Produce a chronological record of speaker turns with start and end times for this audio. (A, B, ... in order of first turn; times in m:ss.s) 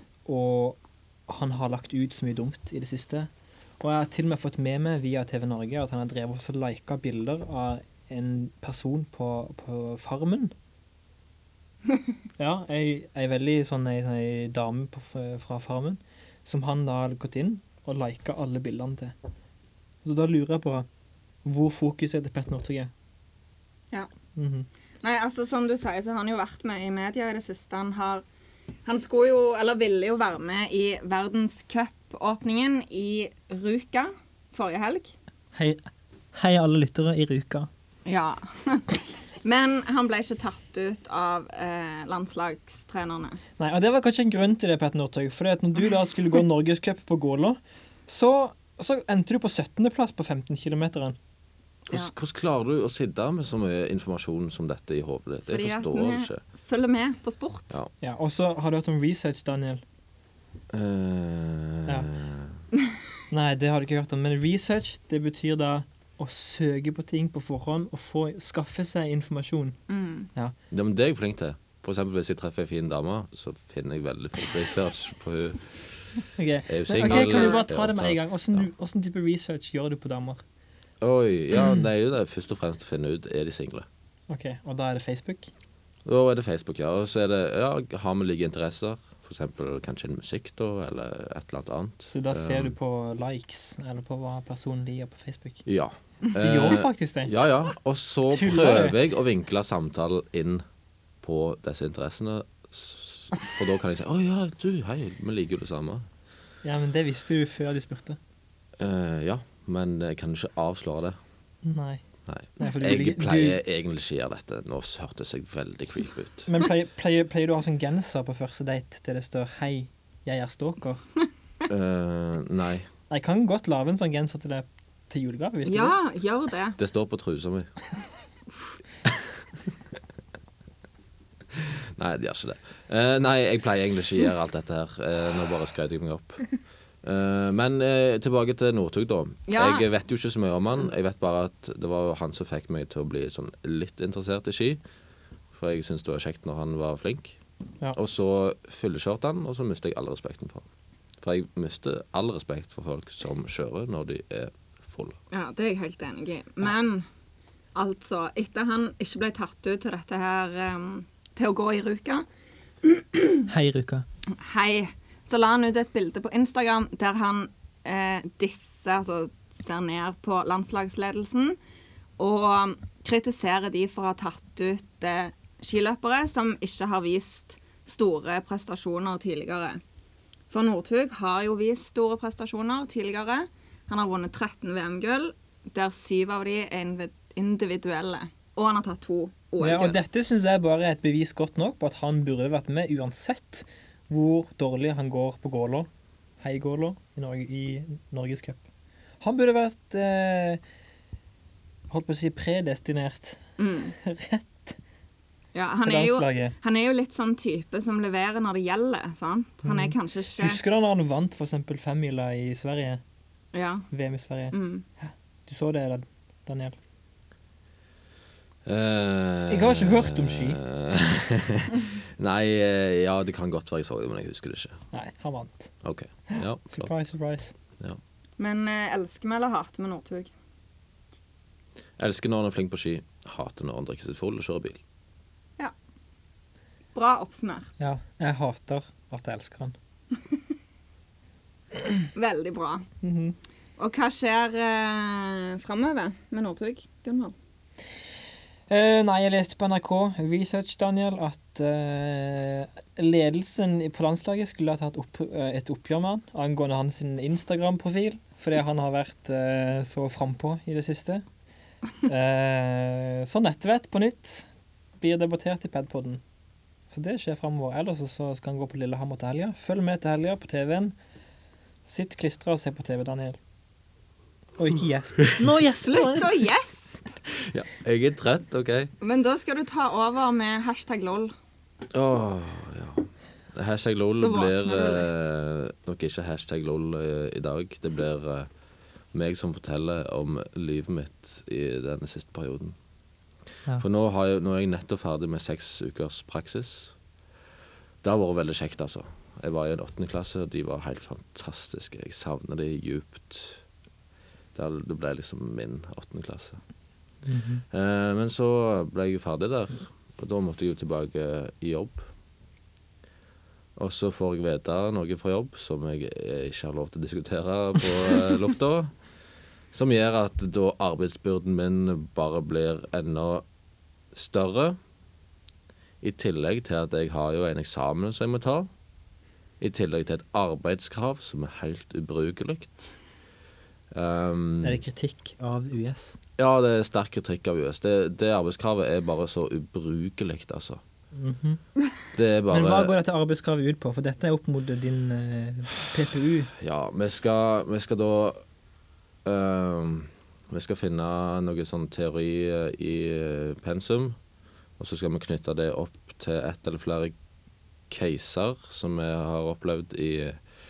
0:00.2-0:03.3 A
0:03.8-0:10.5 A
0:12.4-0:19.1 A
0:20.0-0:20.9 A
0:21.4-0:22.9 A
0:24.4-0:24.7 A
0:25.0-0:28.2 B
0:28.8-0:35.1 B
0:35.5-0:35.8 A
0:36.3-0:37.7 A
0:38.0-0:43.4 B
0:43.6-0:51.2 A
0:51.9-0:56.4 C
0:55.5-0:57.7 B
0:58.0-0:59.8 A
1:00.7-1:02.6 C
1:03.3-1:09.8 A
1:09.9-1:10.3 B
1:10.7-1:16.0 C
1:16.4-1:20.4 A
1:16.7-1:18.6 C
1:16.9-1:17.6 B
1:21.0-1:23.9 C
1:24.3-1:25.5 A
1:26.0-1:32.7 C
1:32.1-1:35.6 A
1:35.6-1:40.6 C
1:36.3-1:37.3 A
1:38.3-1:39.0 A
1:41.2-1:46.0 C
1:46.6-1:48.2 A
1:48.8-1:51.2 C
1:51.6-1:52.0 A
1:52.3-1:56.5 C
1:52.6-1:53.6 A
1:56.5-2:01.0 A
2:01.7-2:02.9 C
2:03.1-2:06.0 A
2:05.6-2:06.8 B
2:06.8-2:07.7 C
2:09.0-2:09.4 C
2:11.5-2:16.5 C
2:17.0-2:24.8 C
2:19.5-2:19.8 B
2:25.5-2:27.4 C
2:27.9-2:30.6 C
2:31.2-2:35.2 C
2:35.3-2:37.0 B
2:37.7-2:42.2 B
2:42.8-2:43.5 B
2:43.5-2:44.0 A
2:44.3-2:51.6 B
2:52.2-2:59.8 B
3:00.5-3:10.0 B
3:09.6-3:15.9 A
3:16.4-3:18.6 A
3:19.2-3:20.6 A
3:21.9-3:23.4 A
3:23.6-3:23.9 B
3:23.9-3:24.8 A
3:25.5-3:30.6 B
3:25.8-3:26.5 A
3:29.6-3:33.0 A
3:33.5-3:33.9 B
3:33.9-3:36.8 A
3:34.5-3:34.8 B
3:38.6-3:44.8 C
3:39.5-3:40.6 A
3:44.9-3:45.7 A
3:45.8-3:46.9 C
3:46.3-3:47.5 A
3:48.4-3:50.3 B
3:52.0-3:54.8 C
3:56.9-3:57.7 B
3:57.8-3:59.7 A
4:02.1-4:02.8 B
4:03.0-4:03.4 A
4:03.8-4:07.3 B
4:08.7-4:21.2 A
4:22.0-4:24.5 A
4:25.0-4:26.2 A
4:26.9-4:30.9 A
4:31.8-4:33.4 A
4:34.6-4:36.3 A
4:35.9-4:37.2 B
4:37.3-4:38.9 C
4:39.0-4:41.3 B
4:41.9-4:48.5 C
4:44.2-4:45.1 B
4:49.1-4:52.8 C
4:53.8-4:56.9 C
4:58.0-5:03.6 C
5:04.5-5:06.6 C
5:07.2-5:07.6 A
5:07.7-5:12.0 C
5:13.8-5:18.9 C
5:19.7-5:23.4 C
5:24.1-5:24.8 C
5:26.0-5:28.7 C
5:29.6-5:32.9 C
5:33.9-5:34.8 C
5:34.6-5:36.2 A
5:36.4-5:40.8 C
5:41.1-5:41.6 A
5:42.1-5:42.9 C
5:42.5-5:46.5 A
5:46.6-5:48.4 C
5:49.2-5:54.2 C
5:54.8-5:57.1 C
5:57.9-6:00.4 C